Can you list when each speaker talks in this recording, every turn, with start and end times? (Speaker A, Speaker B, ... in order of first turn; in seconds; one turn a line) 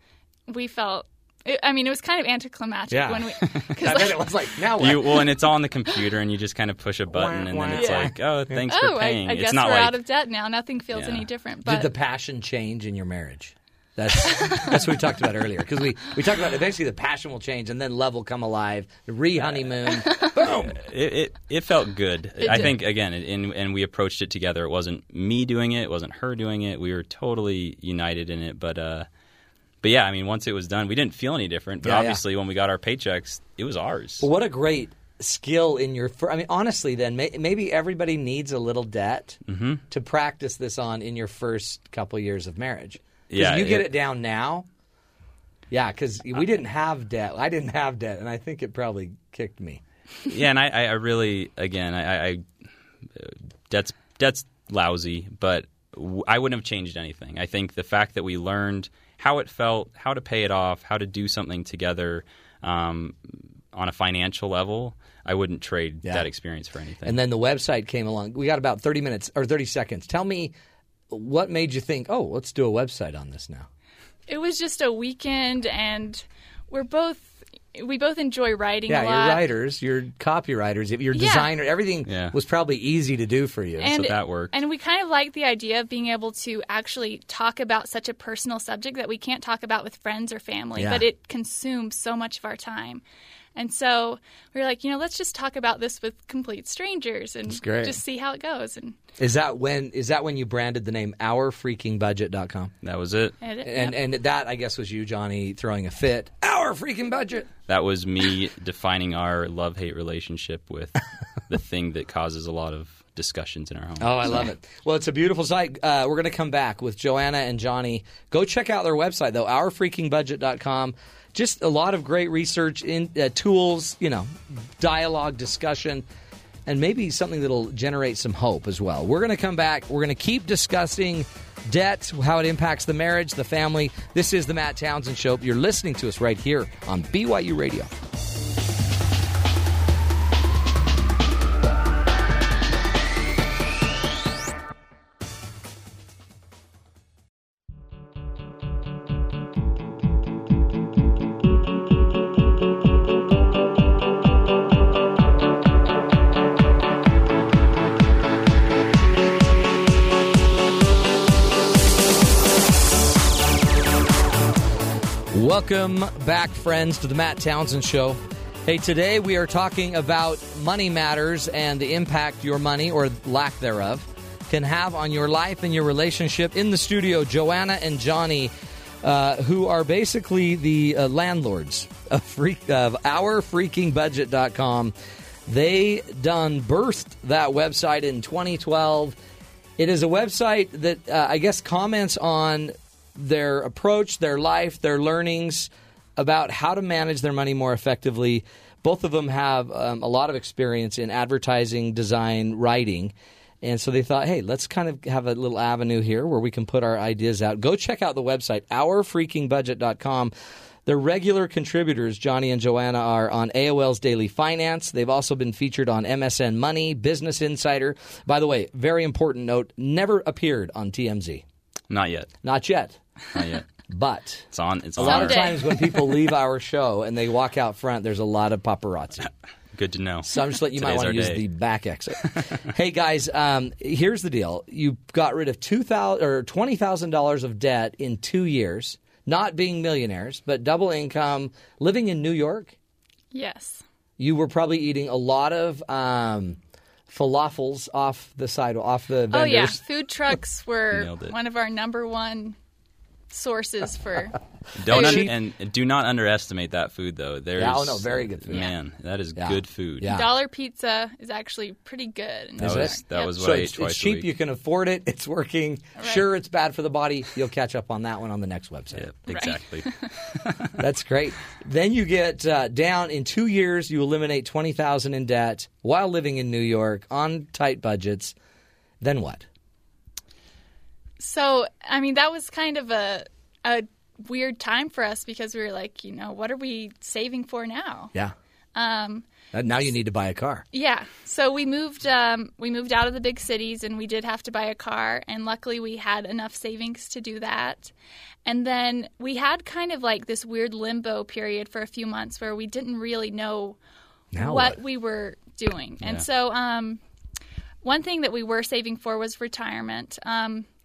Speaker A: 0.5-4.2
Speaker B: 2.9-5.2
Speaker C: 3.5-4.0
Speaker C: 4.8-10.0
Speaker B: 7.1-8.6
Speaker A: 7.7-8.1
Speaker A: 8.7-11.9
Speaker C: 10.9-11.3
Speaker B: 11.6-20.8
Speaker C: 20.4-29.1
Speaker A: 22.4-22.7
Speaker C: 29.8-34.3
Speaker B: 31.8-32.2
Speaker B: 34.2-39.4
Speaker C: 39.5-39.8
Speaker B: 39.9-44.6
Speaker C: 43.3-43.9
Speaker B: 45.7-49.8
Speaker C: 50.2-52.4
Speaker C: 53.1-67.2
Speaker B: 67.0-70.5
Speaker B: 71.1-73.7
Speaker A: 74.3-79.4
Speaker B: 78.9-83.9
Speaker A: 81.1-81.5
Speaker C: 82.0-82.3
Speaker A: 83.8-93.0
Speaker C: 83.9-84.5
Speaker B: 90.8-91.0
Speaker A: 93.5-99.0
Speaker B: 97.5-98.0
Speaker B: 99.2-102.7
Speaker C: 102.8-103.3
Speaker A: 103.4-104.0
Speaker B: 103.6-107.5
Speaker C: 107.7-114.4
Speaker B: 114.0-126.0
Speaker B: 126.7-137.9
Speaker B: 165.3-184.9
Speaker B: 185.4-189.2
Speaker B: 189.8-210.3
Speaker B: 210.8-221.4
Speaker C: 221.9-222.3
Speaker B: 222.4-223.0
Speaker C: 223.3-223.7
Speaker B: 223.9-229.3
Speaker C: 224.5-225.5
Speaker A: 225.0-226.1
Speaker C: 229.7-231.4
Speaker B: 230.2-242.7
Speaker A: 243.3-243.8
Speaker B: 244.2-246.6
Speaker B: 247.1-249.8
Speaker A: 249.3-252.6
Speaker C: 250.9-251.3
Speaker A: 253.3-254.4
Speaker C: 254.8-260.1
Speaker B: 254.9-255.3
Speaker A: 254.9-255.3
Speaker B: 257.6-258.7
Speaker B: 259.4-260.3
Speaker A: 260.1-263.3
Speaker C: 262.6-264.3
Speaker B: 262.6-269.1
Speaker A: 266.0-266.2
Speaker C: 268.9-270.7
Speaker A: 269.3-270.1
Speaker B: 270.8-278.3
Speaker B: 279.0-279.4
Speaker A: 281.2-288.1
Speaker A: 288.7-289.2
Speaker B: 289.5-290.6
Speaker A: 290.7-297.9
Speaker A: 298.4-303.8
Speaker B: 304.3-304.8
Speaker A: 304.4-307.0
Speaker A: 307.8-310.7